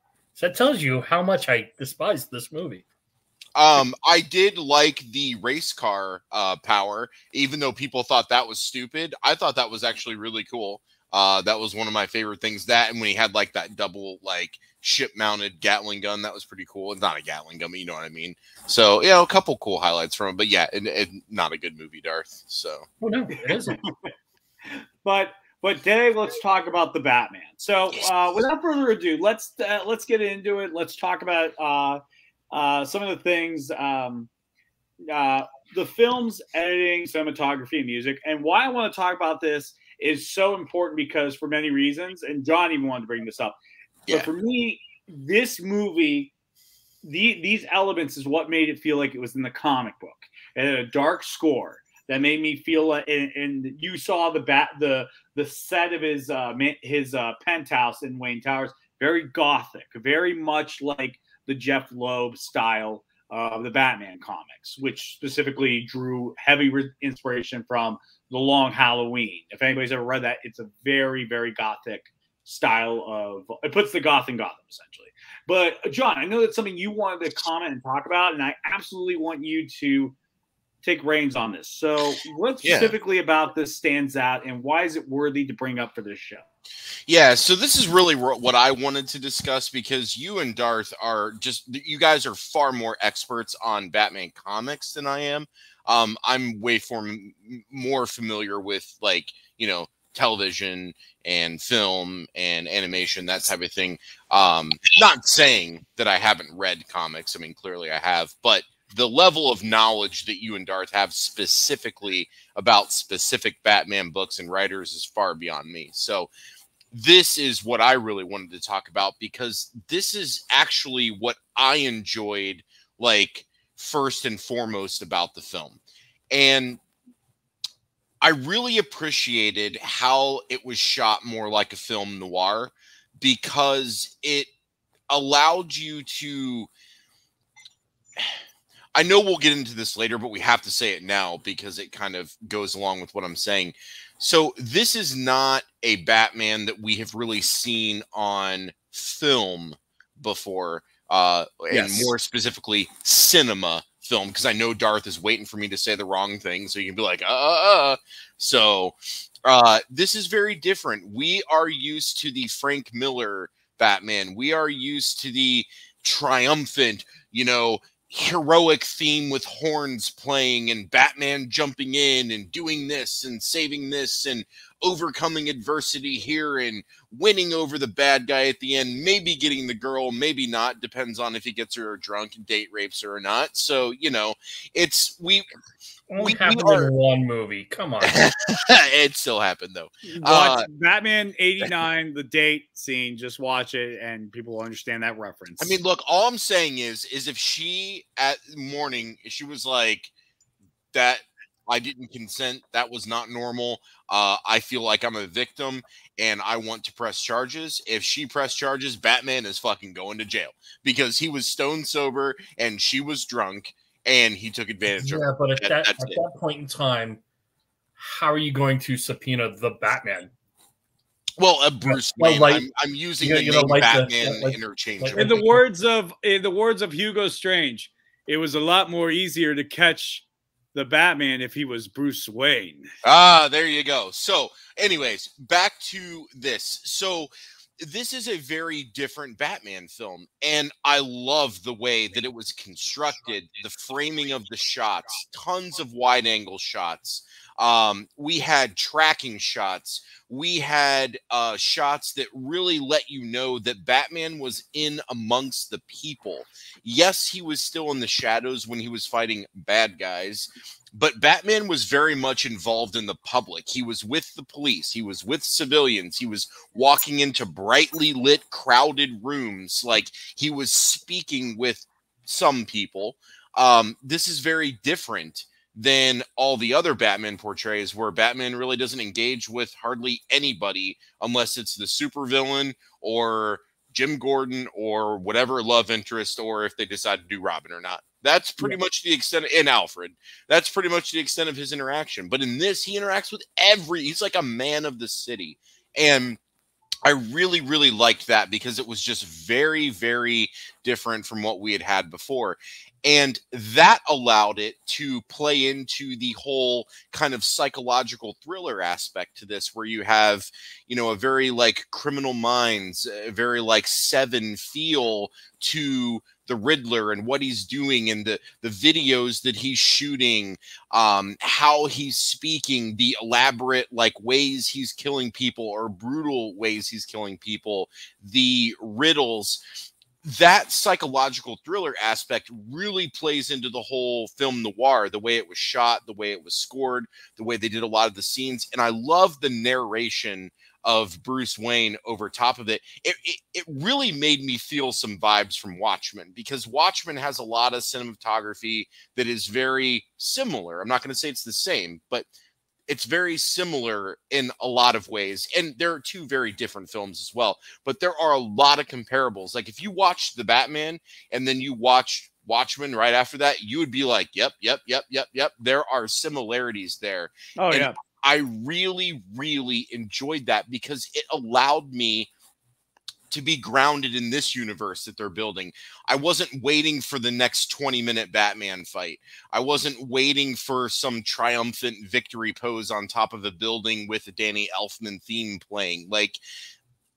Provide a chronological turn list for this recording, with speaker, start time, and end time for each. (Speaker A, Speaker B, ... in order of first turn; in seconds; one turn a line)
Speaker A: 0.3-2.8
Speaker B: 3.5-22.9
Speaker A: 23.0-23.8
Speaker C: 23.5-23.9
Speaker C: 25.0-32.0
Speaker C: 32.5-34.3
Speaker C: 35.1-43.6
Speaker C: 44.1-46.3
Speaker C: 47.0-80.2
Speaker C: 80.8-86.5
Speaker B: 82.6-82.9
Speaker B: 87.1-116.3
Speaker B: 116.9-125.8
Speaker B: 126.3-126.8
Speaker B: 128.2-134.5
Speaker B: 135.1-136.7
Speaker B: 138.9-185.5
Speaker C: 151.7-152.1
Speaker A: 186.1-188.2
Speaker B: 186.2-186.9
Speaker B: 188.0-190.7
Speaker C: 190.1-195.8
Speaker B: 195.6-200.1
Speaker B: 200.9-216.2
Speaker A: 215.0-217.2
Speaker A: 218.0-220.3
Speaker B: 221.4-225.5
Speaker A: 221.8-225.6
Speaker C: 225.1-232.9
Speaker B: 233.0-296.4
Speaker B: 297.0-329.6
Speaker B: 330.2-352.3
Speaker B: 352.9-372.3
Speaker C: 367.6-368.0
Speaker B: 373.3-386.4